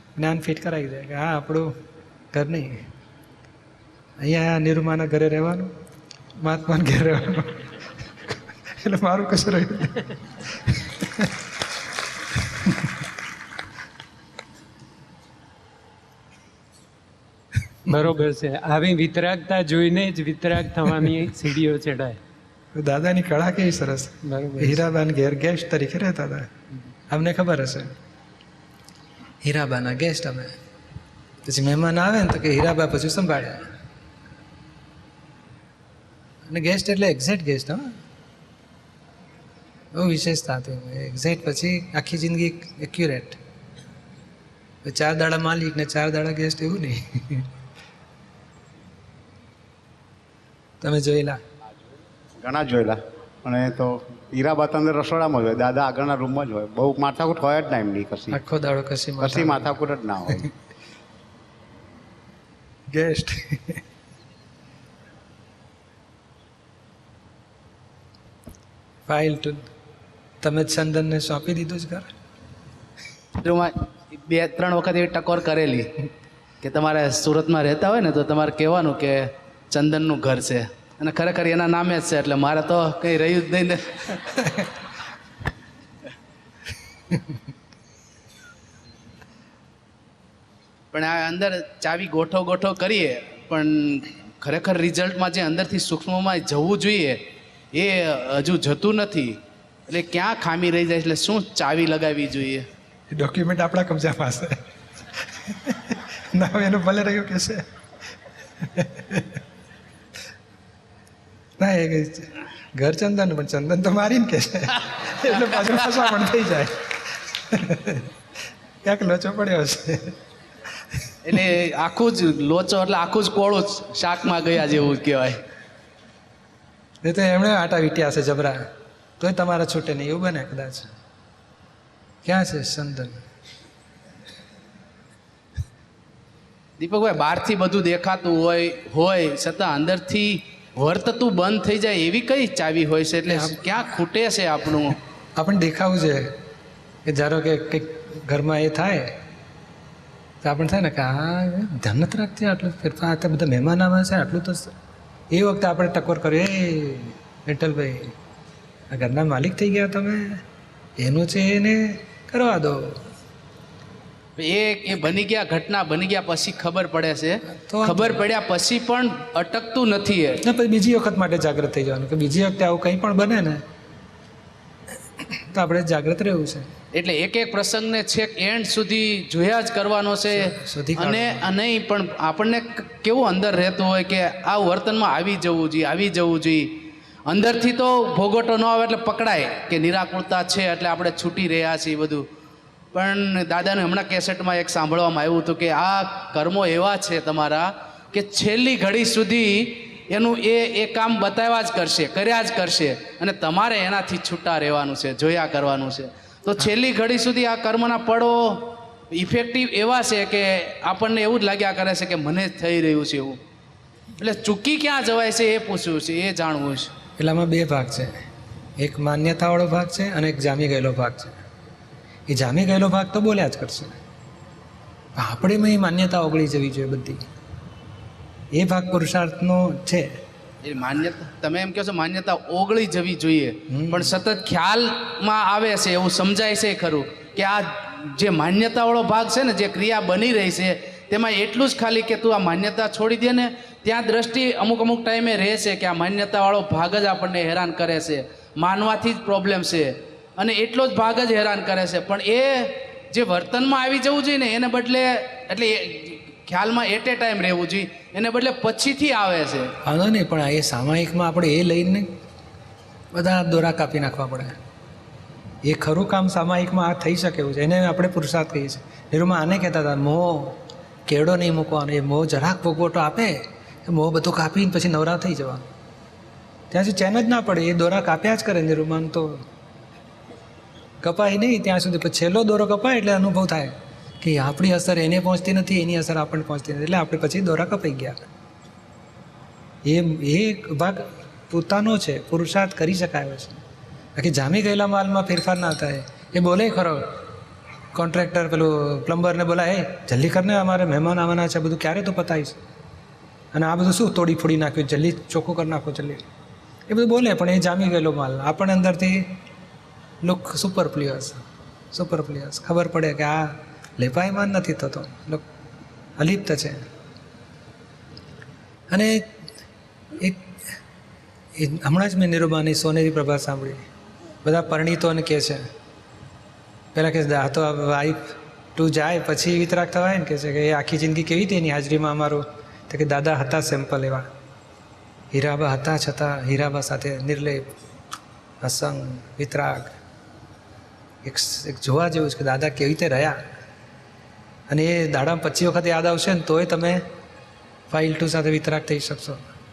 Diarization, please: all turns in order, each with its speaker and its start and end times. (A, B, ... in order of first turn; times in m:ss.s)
0:00.2-0:01.7 A
0:02.3-0:02.8 A
0:04.2-0:05.7 A
0:06.4-0:07.7 A
0:08.2-0:11.3 A
0:17.9-0:22.2 B
0:22.8-0:26.5 A
0:24.2-0:24.8 B
0:27.1-0:27.9 A
0:29.4-0:30.5 A
0:31.4-0:33.6 A
0:36.5-0:37.9 A
0:39.9-0:43.4 A
0:44.8-0:47.5 A
0:50.8-0:51.4 A
0:52.4-0:58.4 C
0:58.3-0:59.8 A
0:59.2-1:00.5 C
1:02.9-1:03.8 A
1:09.1-1:09.7 A
1:10.4-1:12.1 A
1:13.4-1:15.9 D
1:16.6-1:24.1 D
1:24.4-1:24.6 A
1:30.9-1:37.2 D
1:37.7-1:42.6 D
1:43.1-1:44.6 A
1:45.2-1:47.6 A
1:48.6-1:49.4 A
1:51.6-1:58.1 A
1:58.8-2:00.2 A
2:01.2-2:05.4 D
2:07.0-2:08.6 A
2:09.2-2:10.9 A
2:12.2-2:13.2 A
2:16.8-2:25.0 D
2:23.3-2:23.7 A
2:25.4-2:26.3 A
2:27.1-2:29.1 A
2:30.4-2:34.7 A
2:35.3-2:38.1 A
2:38.9-2:40.4 A
2:41.0-2:43.0 A
2:44.4-2:50.4 D
2:47.6-2:48.2 A
2:50.4-2:53.6 A
2:55.3-2:56.7 A
2:57.0-3:12.2 D
3:00.3-3:01.5 A
3:12.9-3:33.4 D
3:34.2-3:36.9 D
3:37.2-3:38.1 A
3:38.8-3:41.4 A
3:42.3-3:44.0 A
3:45.2-3:47.2 A
3:48.5-3:50.1 A
3:50.6-4:19.7 D
3:53.7-3:54.2 A
4:19.8-4:22.1 A
4:23.1-4:24.6 A
4:25.6-4:35.6 A
4:36.7-4:39.4 A
4:41.0-4:48.2 A
4:49.8-4:53.6 A
4:54.2-4:57.1 A
4:57.9-5:02.6 A
5:03.5-5:06.2 A
5:06.9-5:09.3 A
5:10.2-5:15.4 A
5:16.2-5:16.8 A
5:18.9-5:19.3 A
5:20.2-5:20.5 A
5:21.6-5:23.8 A
5:24.4-5:25.6 A
5:26.9-5:34.3 A
5:35.3-5:37.7 A
5:38.6-5:40.0 A
5:41.2-5:43.4 A
5:44.7-5:47.0 A
5:47.9-5:49.4 A